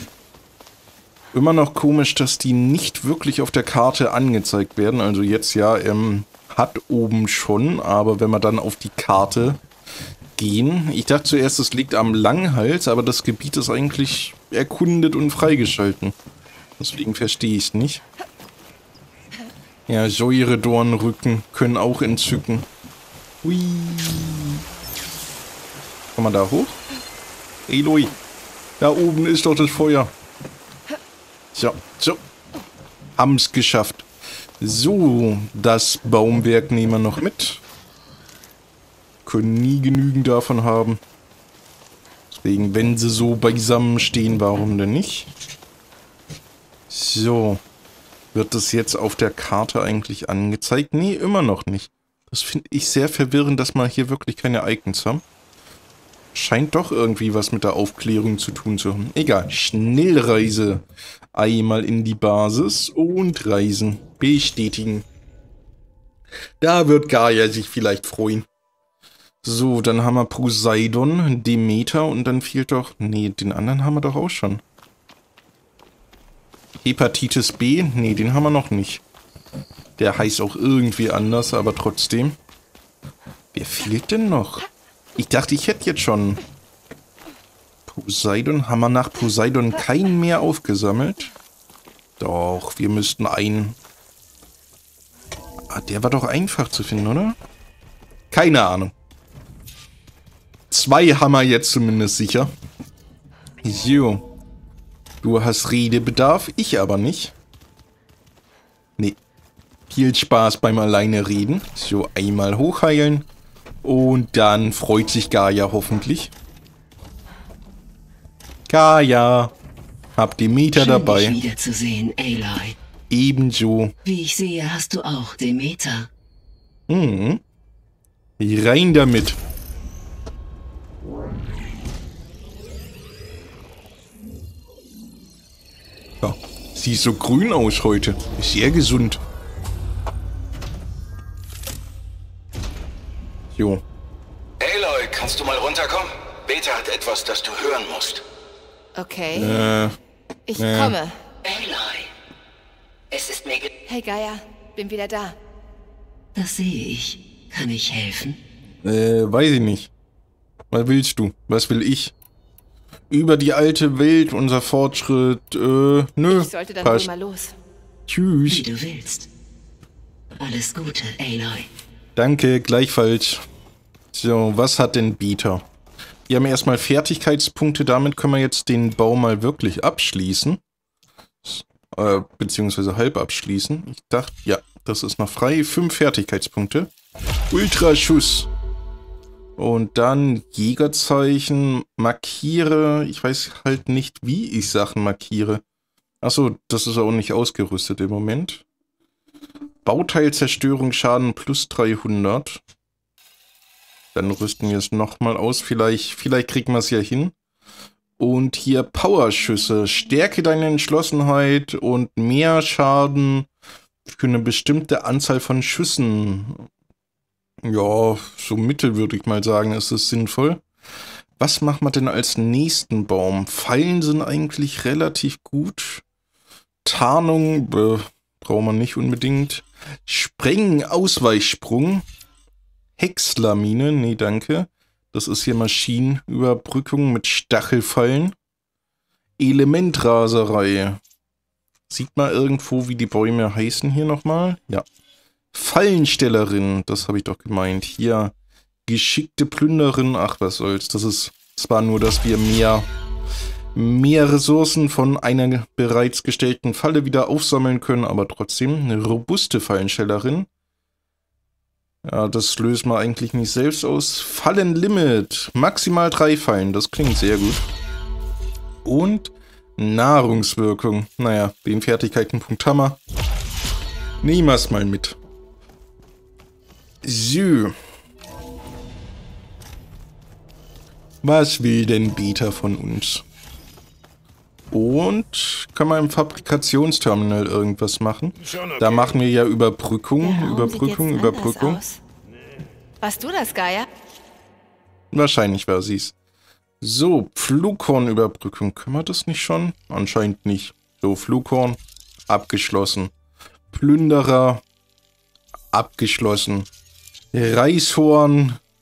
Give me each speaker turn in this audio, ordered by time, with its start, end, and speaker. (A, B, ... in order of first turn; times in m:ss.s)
0:01.3-0:09.6 A
0:10.4-0:16.1 A
0:16.8-0:18.0 A
0:19.9-0:22.7 A
0:23.4-0:24.6 A
0:26.2-0:26.8 A
0:27.7-0:28.2 A
0:28.8-0:30.1 A
0:31.6-0:32.2 A
0:33.2-0:34.1 A
0:34.6-0:37.6 A
0:39.2-0:41.0 A
0:42.3-0:45.3 A
0:46.9-0:47.6 A
0:48.3-0:55.2 A
0:56.3-1:05.0 A
1:06.6-1:08.5 A
1:09.4-1:14.6 A
1:16.8-1:19.0 A
1:20.0-1:22.4 A
1:23.5-1:24.7 A
1:25.2-1:26.4 A
1:27.9-1:31.3 A
1:32.2-1:33.8 A
1:35.7-1:37.4 A
1:38.3-1:38.9 A
1:40.7-1:42.5 A
1:43.6-1:44.2 A
1:45.2-1:47.3 A
1:49.9-1:53.3 A
1:53.8-1:56.3 A
1:58.7-1:59.5 A
2:00.2-2:01.4 A
2:00.7-2:02.8 B
2:03.1-2:04.0 A
2:04.0-2:06.1 B
2:06.9-2:07.4 A
2:08.4-2:09.4 A
2:16.2-2:19.2 A
2:23.5-2:23.8 A
2:24.6-2:28.2 C
2:29.0-2:29.7 D
2:29.4-2:30.0 A
2:30.5-2:31.2 D
2:30.6-2:31.0 A
2:31.4-2:32.1 B
2:33.1-2:33.7 B
2:33.9-2:35.4 D
2:36.3-2:38.4 B
2:38.8-2:39.9 A
2:40.7-2:42.1 A
2:43.1-2:47.1 A
2:46.3-2:47.6 D
2:48.1-2:48.7 A
2:48.5-2:49.3 B
2:50.4-2:51.7 B
2:52.2-2:53.4 A
2:54.1-2:55.6 A
2:56.3-3:00.6 A
3:01.4-3:06.9 A
3:07.5-3:08.5 A
3:09.6-3:15.6 A
3:16.2-3:18.6 A
3:19.8-3:22.6 A
3:24.2-3:27.3 A
3:28.2-3:33.5 A
3:34.1-3:36.7 A
3:37.6-3:40.6 A
3:41.4-3:46.0 A
3:46.8-3:52.1 A
3:53.0-3:58.4 A
3:59.4-4:01.0 A
4:01.9-4:04.9 A
4:05.5-4:08.3 A
4:08.9-4:12.9 A
4:13.8-4:20.5 A
4:22.0-4:27.7 A
4:28.8-4:33.0 A
4:34.2-4:35.2 A
4:37.0-4:37.8 A
4:41.2-4:43.2 A
4:44.7-4:51.8 A
4:50.2-4:52.0 D
4:53.0-4:53.9 D
4:55.1-4:56.1 A
4:56.8-5:03.1 A
5:03.7-5:04.6 A
5:05.7-5:06.7 A
5:07.3-5:08.6 A